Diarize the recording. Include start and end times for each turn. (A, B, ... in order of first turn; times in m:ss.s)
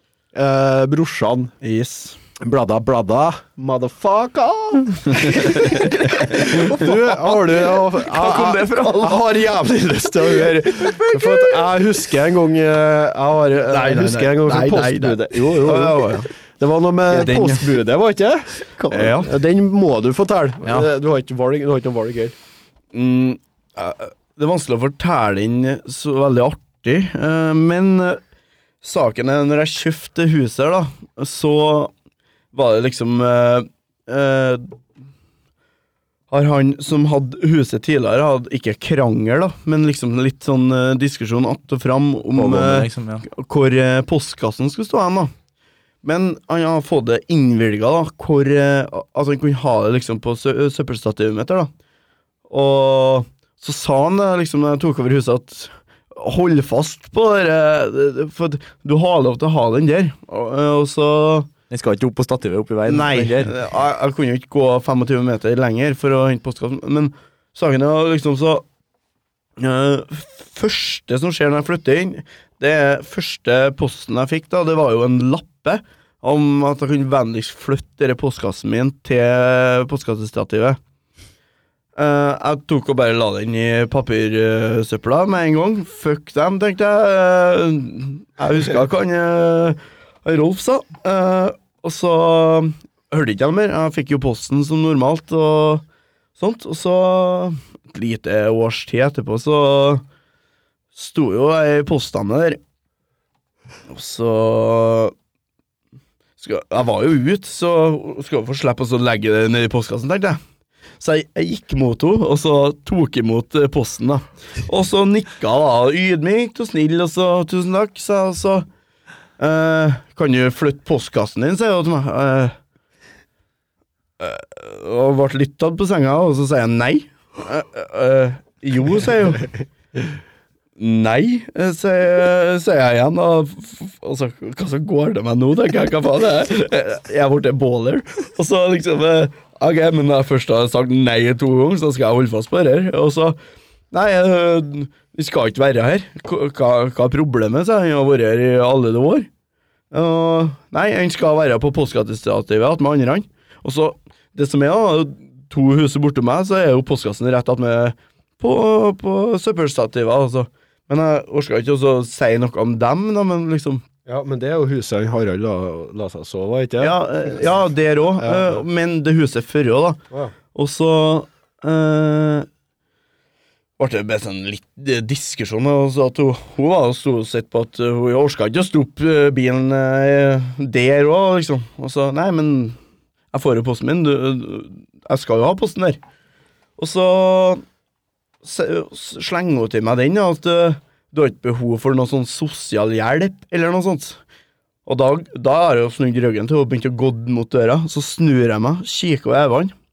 0:00.3-0:01.6 A
0:01.6-0:02.2 B
0:02.4-0:22.4 A
0:08.0-0:09.2 C
0:13.7-0:14.3 C
0:14.4-0:16.3 B
0:17.2-0:17.6 B
0:18.9-0:19.3 B
0:22.9-0:28.2 B
0:28.8-0:31.9 B
0:32.5-0:34.8 B
0:36.3-0:45.3 B
0:42.4-0:43.3 C
0:46.0-0:51.7 B
0:52.5-1:01.5 B
1:01.7-1:03.5 C
1:02.9-1:08.6 B
1:09.6-1:20.8 B
1:22.0-1:35.8 B
1:36.4-1:40.0 B
1:40.9-1:42.6 B
1:43.9-1:45.1 B
1:46.4-1:50.4 B
1:51.0-1:58.7 B
1:59.4-2:02.6 B
2:04.2-2:09.5 B
2:10.8-2:23.4 B
2:23.9-2:29.3 B
2:29.9-2:43.8 B
2:44.1-2:47.0 A
2:46.8-2:50.0 B
2:48.2-2:48.6 A
2:50.5-2:52.5 B
2:53.8-3:02.8 B
3:03.3-3:06.0 B
3:06.8-3:07.6 B
3:08.4-3:14.2 B
3:14.9-3:19.7 B